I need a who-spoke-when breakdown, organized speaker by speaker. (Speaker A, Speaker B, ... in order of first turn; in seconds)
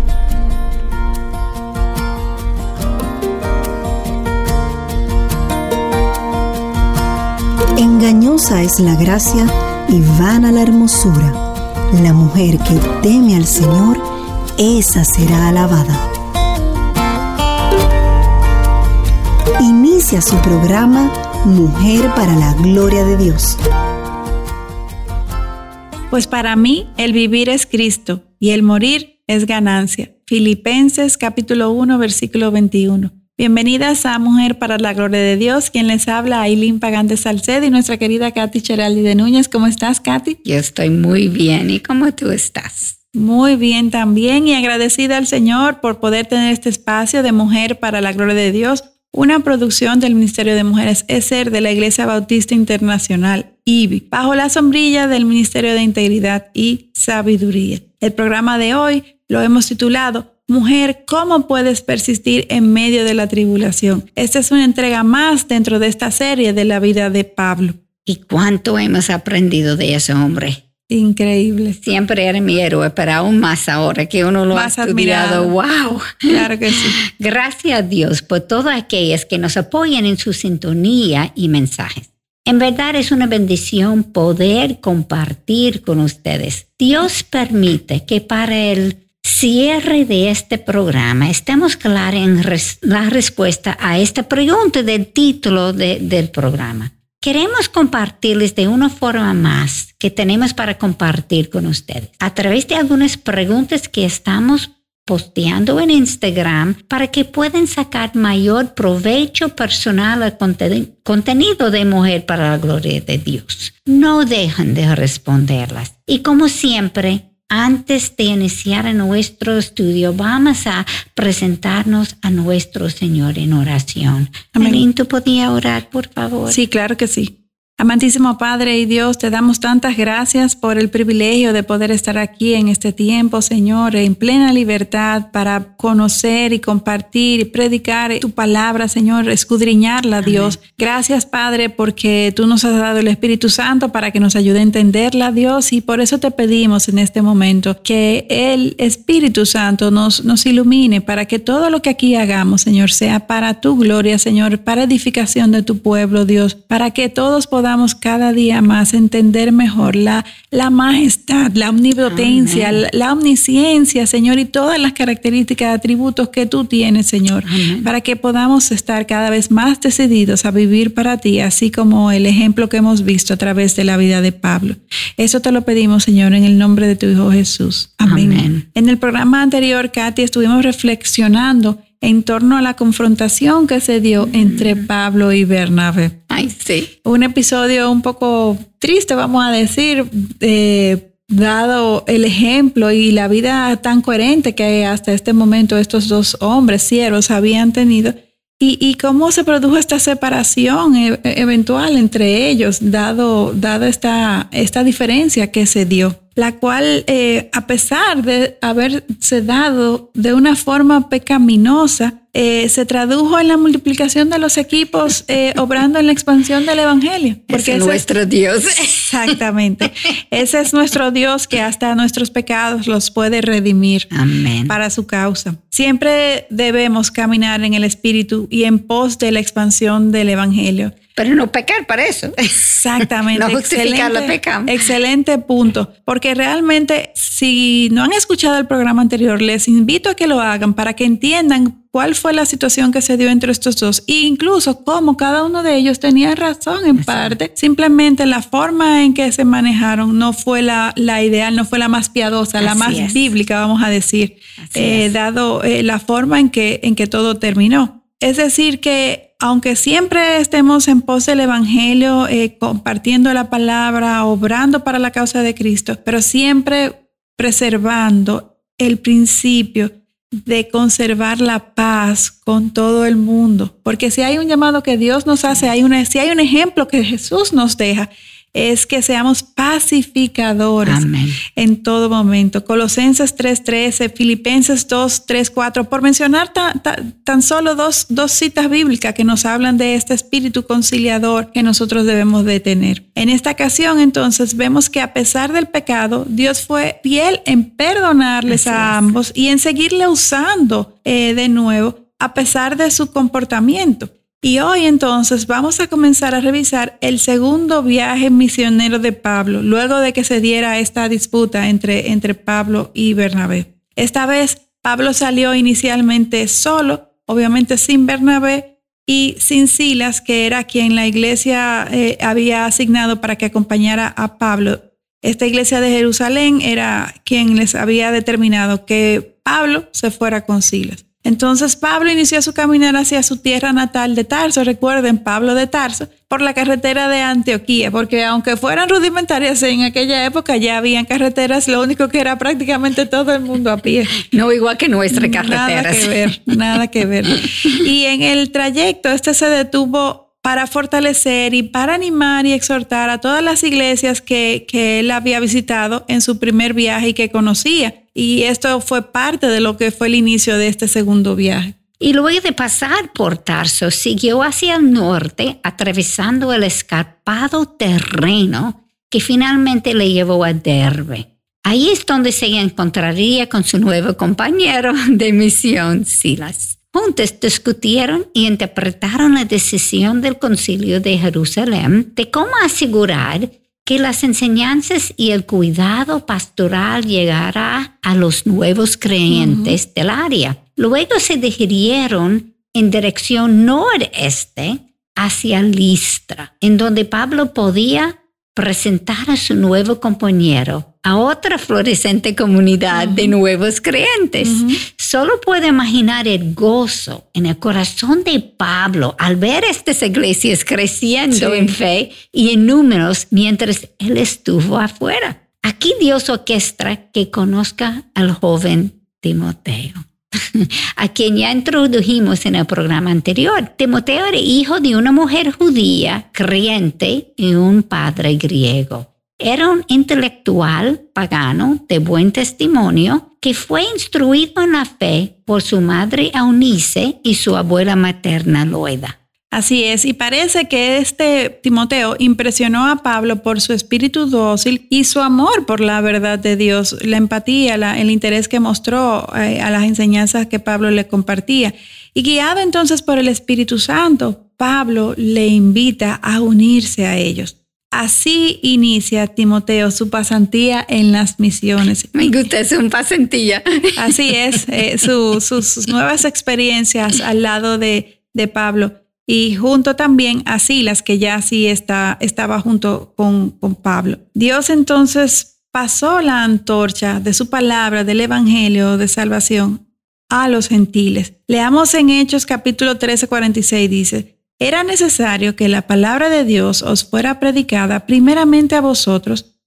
Speaker A: 7.8-11.4, 11.9-14.0, 14.6-16.0, 19.6-23.6
Speaker B: 26.1-40.4, 43.1-67.8, 70.9-71.8, 74.5-75.5, 76.3-77.0, 124.5-124.8, 126.5-186.2, 187.1-218.0, 219.0-224.1, 224.7-230.9, 232.8-269.9, 270.4-281.0, 281.6-344.2, 345.1-361.7, 389.3-389.8, 402.9-403.3, 404.4-404.8, 411.3-411.7, 439.5-462.1, 464.0-489.4
Speaker C: 40.4-42.9, 68.0-70.6, 71.8-76.3, 77.0-126.6, 140.2-140.6, 162.1-162.8, 167.4-167.9, 178.1-178.6, 184.2-184.9, 186.3-186.9, 217.5-219.4, 224.1-224.8, 231.2-234.8, 247.0-247.4, 252.6-253.3, 254.6-255.1, 280.8-281.4, 298.5-299.2, 344.2-346.4, 347.3-347.7, 362.0-439.1, 462.1-464.6